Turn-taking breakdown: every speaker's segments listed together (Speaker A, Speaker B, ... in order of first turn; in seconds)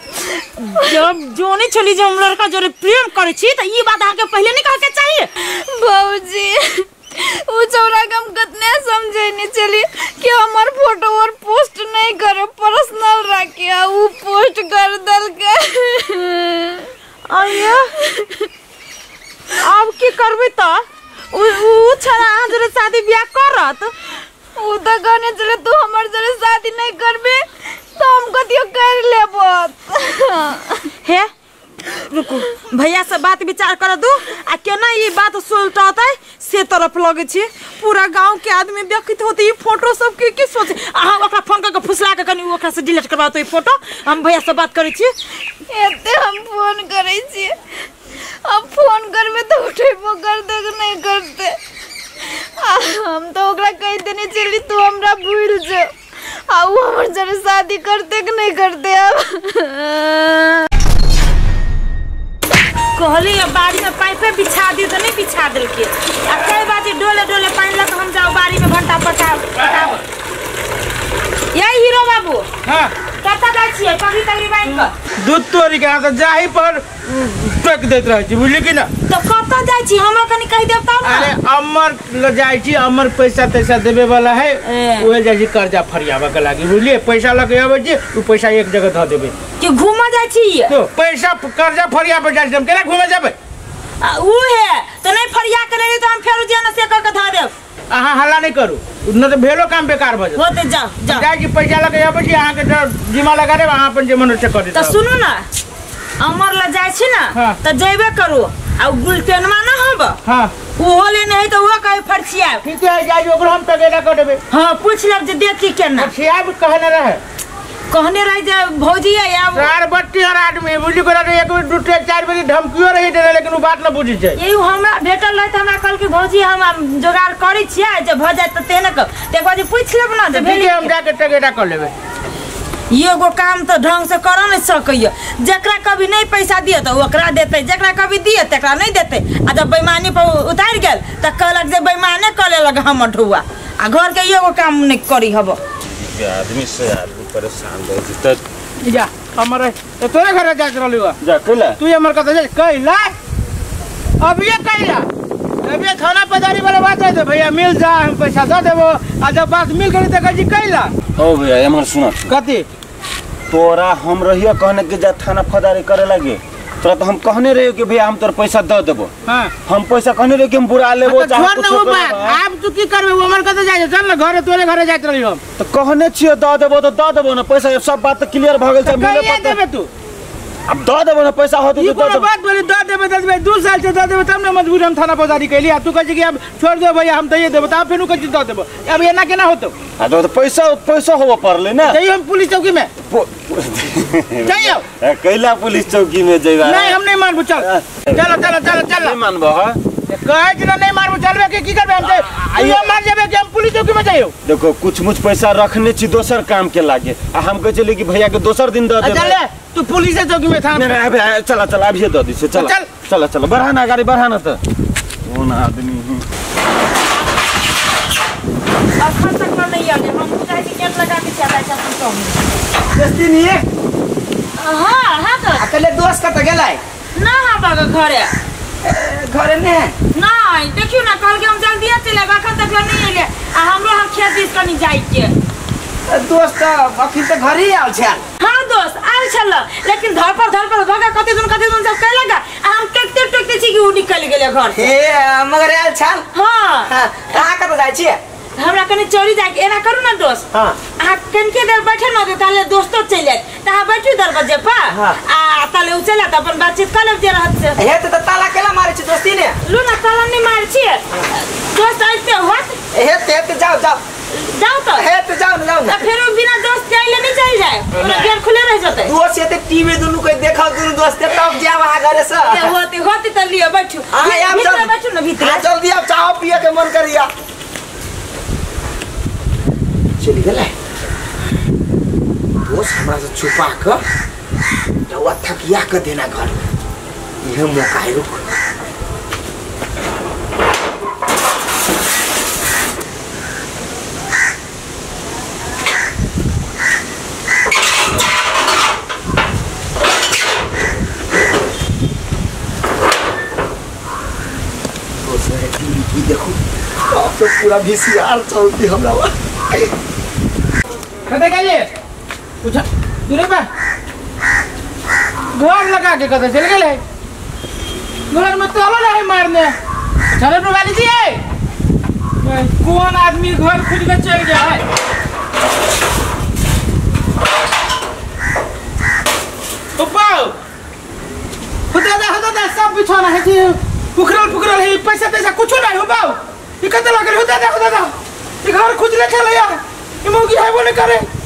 Speaker A: 0.6-5.3, 17.3-17.9, 21.5-23.9, 31.0-31.3, 31.9-45.1, 63.0-70.0, 71.5-72.5, 73.2-74.9, 79.1-81.3, 84.6-85.1, 89.6-90.7, 94.0-97.5, 100.3-101.3, 104.7-105.5, 106.2-110.2, 110.8-112.6, 114.5-116.1, 117.9-119.7, 124.4-130.9, 132.9-145.6, 219.0-222.4, 224.6-225.7, 227.2-228.3, 230.2-235.3, 238.4-244.9, 246.3-246.9, 248.6-250.5, 251.0-257.8, 259.7-262.8, 264.3-265.1, 265.9-269.1, 272.5-275.6
Speaker B: 5.4-16.9, 17.4-18.5, 19.7-20.8, 21.4-22.2, 24.6-30.9, 45.7-47.6, 48.5-51.6, 52.4-55.9, 56.5-60.6
Speaker C: 69.6-70.0, 72.7-72.9, 74.7-78.9, 81.0-89.3, 90.7-93.4, 97.9-100.4, 101.1-105.0, 110.2-110.5, 112.6-114.4, 116.0-117.2, 119.5-124.4, 130.3-131.9, 148.8-151.2, 151.8-153.1, 154.2-155.1, 155.6-160.9, 162.3-162.7, 169.3-169.5, 171.0-175.4, 178.8-179.9, 181.8-189.8, 191.9-192.9, 194.4-194.8, 196.6-199.2, 200.1-204.3, 209.0-210.9, 212.6-212.9, 311.3-311.9, 312.6-313.7, 315.5-317.0, 318.3-319.8, 320.3-321.4, 322.4-324.8, 330.0-330.6, 331.9-341.3
Speaker D: 145.9-148.4, 151.2-151.8, 161.2-162.3, 163.5-169.1, 169.7-172.4, 175.6-179.6, 180.7-182.3, 190.0-192.0, 193.1-197.0, 197.6-199.8, 202.4-202.9, 204.5-209.4, 210.7-214.6, 215.2-216.2
Speaker E: 222.9-223.7, 225.6-226.8, 228.8-229.9, 236.1-238.2, 244.8-246.3, 246.9-248.2, 250.5-250.8, 254.9-255.2, 257.8-259.6, 262.9-264.0, 265.0-266.0, 267.9-268.4, 269.0-272.8, 274.1-277.3, 280.2-280.7, 282.6-284.0, 285.1-286.6, 287.4-288.4, 305.2-309.9